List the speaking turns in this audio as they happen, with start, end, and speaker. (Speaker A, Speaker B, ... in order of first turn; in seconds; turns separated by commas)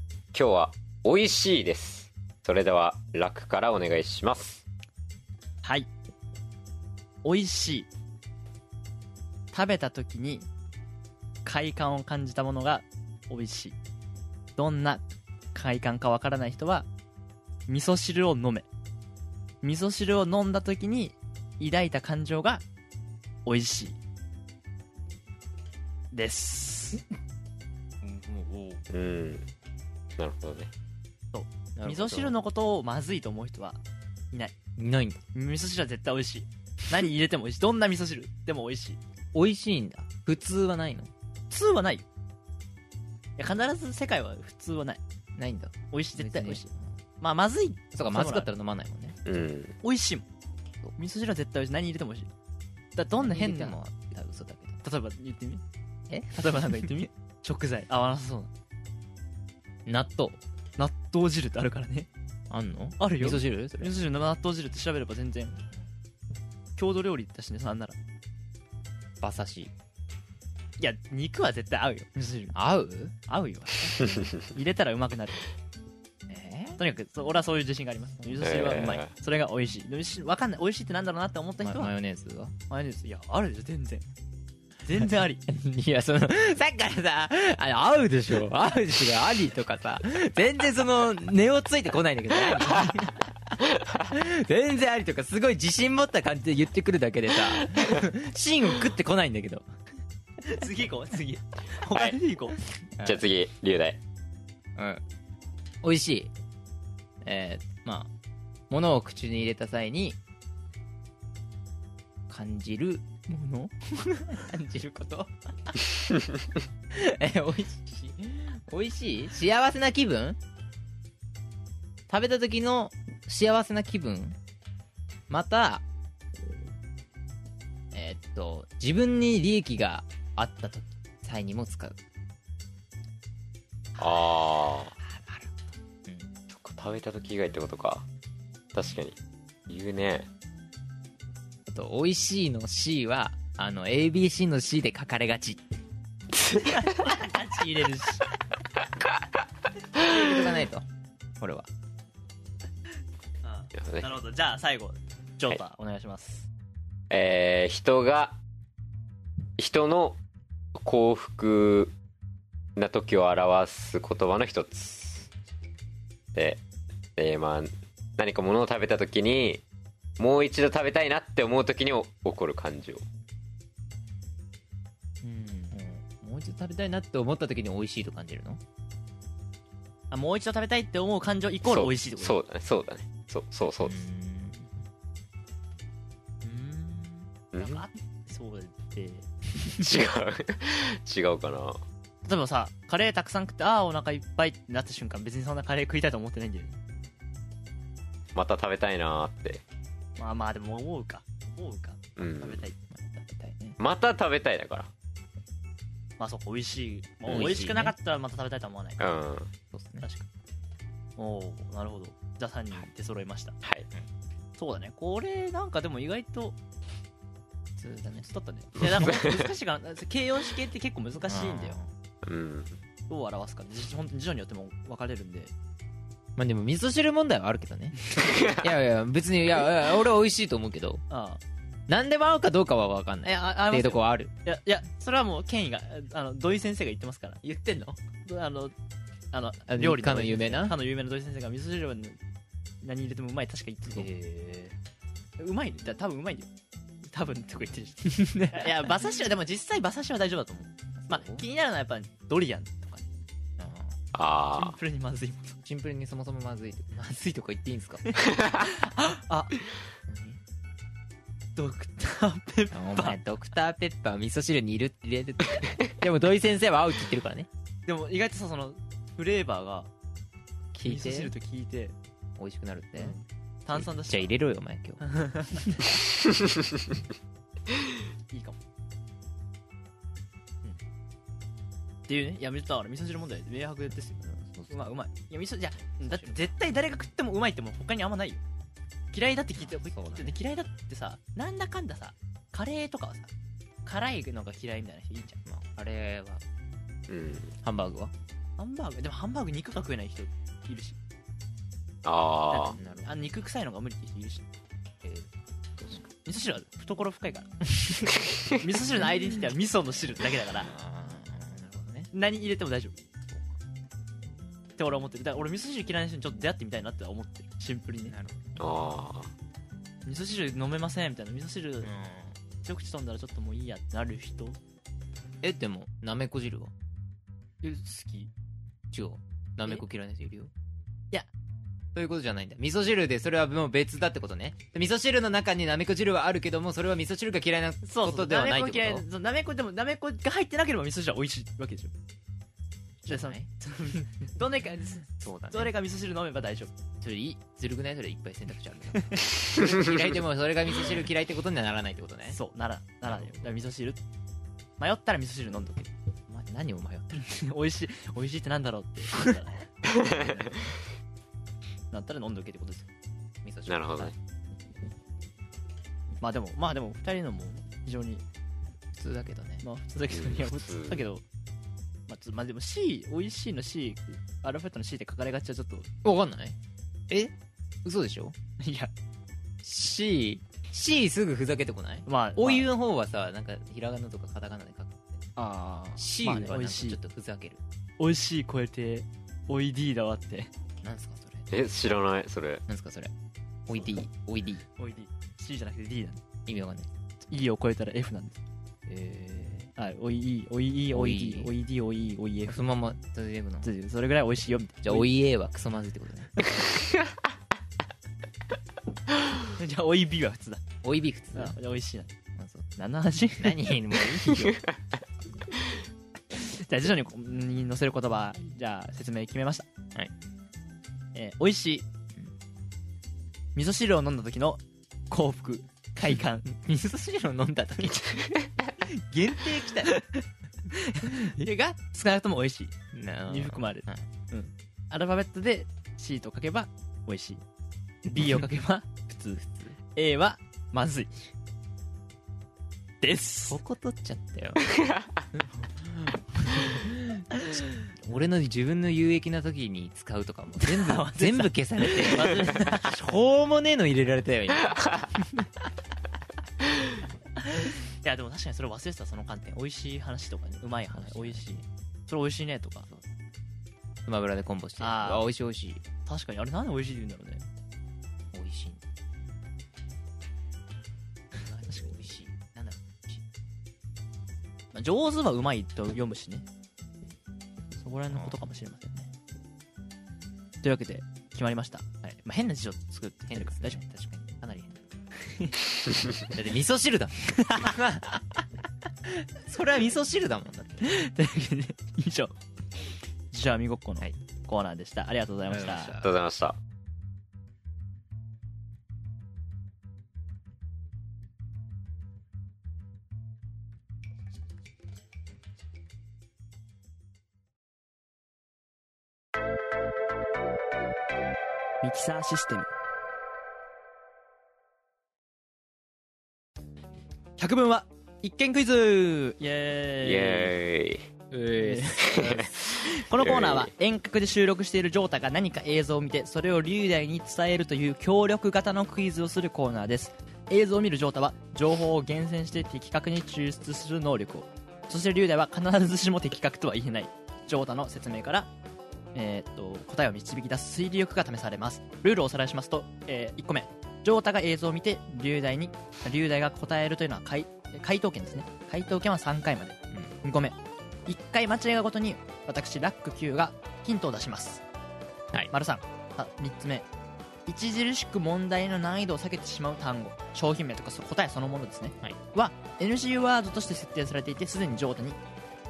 Speaker A: 0.3-4.6, Speaker B: 5.6-5.9, Speaker B: 7.2-7.9, Speaker B: 9.5-10.5, Speaker B: 11.4-13.8, Speaker B: 14.6-16.9, Speaker B: 17.7-18.7, Speaker B: 19.6-22.6, Speaker B: 23.4-24.0, Speaker B: 26.1-27.0, Speaker C: 28.0-28.8, Speaker A: 28.9-29.4, Speaker A: 30.2-30.7, Speaker B: 31.3-33.8, Speaker C: 31.8-32.3, Speaker C: 34.8-35.2, Speaker B: 35.3-39.0, Speaker C: 39.3-41.1, Speaker B: 41.5-42.0, Speaker B: 43.4-45.0, Speaker C: 45.4-46.8, Speaker B: 45.9-46.7, Speaker B: 47.2-48.5, Speaker C: 47.9-49.2, Speaker A: 49.2-49.7, Speaker B: 49.8-50.2, Speaker B: 51.0-52.3, Speaker B: 53.0-53.8, Speaker C: 53.1-54.8, Speaker B: 54.8-55.6, Speaker C: 56.1-57.0, Speaker B: 56.3-58.5, Speaker C: 59.9-60.4, Speaker B: 60.8-62.1, Speaker C: 62.5-64.0, Speaker B: 63.0-65.6, Speaker B: 66.8-68.0, Speaker C: 69.2-69.7, Speaker B: 70.8-72.5, Speaker C: 72.5-73.1, Speaker B: 73.3-75.5, Speaker C: 76.3-76.8, Speaker B: 76.8-81.9, Speaker A: 78.4-79.1, Speaker C: 81.6-82.5, Speaker B: 82.7-84.0, Speaker B: 84.8-85.4, Speaker C: 85.5-99.7, Speaker B: 100.4-102.6, Speaker C: 103.0-103.2, Speaker A: 103.0-104.0, Speaker C: 104.8-105.0, Speaker C: 105.8-106.3, Speaker C: 107.2-108.1, Speaker C: 108.7-110.2, Speaker C: 112.3-115.9, Speaker C: 116.9-120.4, Speaker C: 122.1-124.4, Speaker C: 125.3-125.8, Speaker C: 127.9-132.0, Speaker A: 134.0-134.9, Speaker C: 135.2-135.5, Speaker C: 136.0-136.3, Speaker A: 136.5-138.0, Speaker A: 138.7-139.2, Speaker A: 139.7-140.3, Speaker C: 141.7-145.6, Speaker A: 146.3-146.7, Speaker B: 146.6-148.2, Speaker C: 150.0-150.8, Speaker C: 151.4-151.7, Speaker B: 153.4-156.5, Speaker A: 153.8-154.1, Speaker A: 157.1-158.4, Speaker A: 159.6-160.2, Speaker A: 160.7-161.9, Speaker A: 162.8-165.3, Speaker A: 166.3-166.6, Speaker A: 167.2-169.6, Speaker A: 170.2-173.0, Speaker C: 175.2-178.6, Speaker B: 180.1-182.4, Speaker A: 181.7-184.0, Speaker C: 183.8-184.8, Speaker C: 186.4-187.2, Speaker A: 187.5-187.8, Speaker B: 187.6-189.3, Speaker A: 189.7-191.8, Speaker B: 192.2-196.8, Speaker A: 198.3-199.6, Speaker B: 200.2-202.8, Speaker A: 202.2-202.6, Speaker C: 202.9-203.8, Speaker A: 203.8-204.9, Speaker B: 206.2-209.0, Speaker C: 207.3-207.9, Speaker A: 209.0-209.5, Speaker C: 209.7-210.1, Speaker B: 210.0-210.2, Speaker B: 211.2-213.6, Speaker B: 214.6-216.6, Speaker C: 217.8-218.3, Speaker B: 218.3-221.8, Speaker A: 218.9-219.4, Speaker C: 221.3-221.9, Speaker A: 222.2-222.8, Speaker B: 223.1-225.5, Speaker C: 226.3-231.0, Speaker A: 228.2-228.7, Speaker B: 231.1-231.4, Speaker C: 231.9-234.3, Speaker B: 233.2-237.4, Speaker C: 237.4-238.0, Speaker B: 238.2-238.7, Speaker B: 239.3-242.2, Speaker C: 239.7-240.8, Speaker B: 242.8-244.1, Speaker C: 243.9-244.7, Speaker B: 245.4-246.5, Speaker B: 247.1-253.1, Speaker C: 248.2-248.9, Speaker C: 251.0-251.4, Speaker C: 253.6-254.0, Speaker A: 254.1-254.8, Speaker B: 254.5-255.6, Speaker C: 255.7-258.4, Speaker B: 258.1-259.6, Speaker C: 260.1-260.4, Speaker B: 261.6-263.2, Speaker C: 262.7-267.5, Speaker B: 267.9-269.9, Speaker C: 270.7-271.3, Speaker B: 270.8-271.9, Speaker C: 272.4-273.2, Speaker B: 273.0-274.3, Speaker C: 273.7-275.0, Speaker B: 275.0-275.9, Speaker B: 278.3-278.6, Speaker B: 282.1-288.4, Speaker C: 284.2-284.8, Speaker C: 286.0-286.5, Speaker B: 289.1-293.3, Speaker C: 289.6-290.4, Speaker B: 293.8-295.4, Speaker C: 295.4-296.4, Speaker A: 297.1-297.5, Speaker C: 297.6-298.1, Speaker B: 298.6-301.0, Speaker A: 302.0-302.8, Speaker B: 302.5-304.5, Speaker C: 302.7-303.4, Speaker C: 305.0-305.3, Speaker B: 306.2-307.6, Speaker B: 308.5-310.7, Speaker C: 310.6-312.1, Speaker B: 312.1-312.9, Speaker C: 313.3-313.6, Speaker B: 314.8-318.1, Speaker C: 318.1-318.5, Speaker A: 318.6-319.3, Speaker B: 320.1-321.9, Speaker C: 321.8-322.4, Speaker B: 322.6-324.6, Speaker C: 325.4-326.7, Speaker B: 327.6-328.3, Speaker C: 328.9-330.5, Speaker C: 331.9-339.0, Speaker B: 337.8-341.9, Speaker C: 343.0-343.5, Speaker B: 343.1-346.7, Speaker C: 345.2-345.7, Speaker C: 347.0-352.4, Speaker B: 349.0-349.3, Speaker B: 352.3-354.0, Speaker C: 353.1-353.4, Speaker B: 354.8-355.9, Speaker C: 356.3-357.3, Speaker B: 357.1-360.6, Speaker B: 361.9-362.9, Speaker C: 363.4-364.1, Speaker A: 363.7-364.1, Speaker B: 366.2-368.2, Speaker C: 368.9-369.6, Speaker B: 369.6-371.2, Speaker A: 370.1-371.0, Speaker B: 372.1-375.9, Speaker C: 376.0-376.6, Speaker C: 377.1-378.4, Speaker B: 378.6-378.9, Speaker C: 379.6-385.3, Speaker B: 382.1-382.7, Speaker B: 385.4-387.0, Speaker C: 386.0-387.6, Speaker B: 388.0-390.5, Speaker C: 390.8-391.5, Speaker A: 391.5-392.6, Speaker C: 392.7-393.1, Speaker C: 393.7-394.6, Speaker B: 394.8-396.2, Speaker C: 396.4-396.9, Speaker B: 397.3-398.4, Speaker C: 398.9-399.7, Speaker B: 399.8-402.6, Speaker C: 400.9-401.5, Speaker C: 402.4-403.7, Speaker B: 403.6-405.1, Speaker C: 404.8-406.4, Speaker B: 409.5-410.6, Speaker C: 410.8-411.6, Speaker B: 411.3-412.1, Speaker C: 412.4-412.7, Speaker B: 412.8-414.0, Speaker C: 413.4-414.6, Speaker B: 416.4-419.7, Speaker B: 421.1-421.9, Speaker B: 423.5-426.5, Speaker C: 426.1-429.9, Speaker B: 429.1-432.7, Speaker C: 432.9-434.0, Speaker B: 433.3-437.4, Speaker B: 438.1-441.1, Speaker C: 439.4-439.7, Speaker B: 443.0-443.6, Speaker C: 443.5-444.7, Speaker C: 446.4-447.3, Speaker B: 447.3-447.7, Speaker C: 448.0-455.4, Speaker B: 450.6-453.0, Speaker B: 457.4-462.9, Speaker C: 460.9-461.6, Speaker C: 464.1-465.8, Speaker B: 464.8-465.3, Speaker B: 466.1-467.4, Speaker C: 468.3-468.8, Speaker C: 471.3-473.2, Speaker B: 474.7-476.4, Speaker B: 477.8-479.1, Speaker B: 480.6-483.8, Speaker C: 483.2-484.8, Speaker C: 486.3-488.4, Speaker B: 487.3-487.8, Speaker C: 489.1-490.8, Speaker B: 490.8-492.4, Speaker B: 493.3-495.9, Speaker C: 495.5-496.1, Speaker A: 496.0-496.6, Speaker B: 511.8-512.7, Speaker B: 517.4-520.5, Speaker A: 520.0-521.1, Speaker C: 521.3-522.5, Speaker B: 521.6-538.5, Speaker A: 522.0-523.7, Speaker B: 539.1-554.6, Speaker B: 555.5-556.9, Speaker B: 557.5-565.2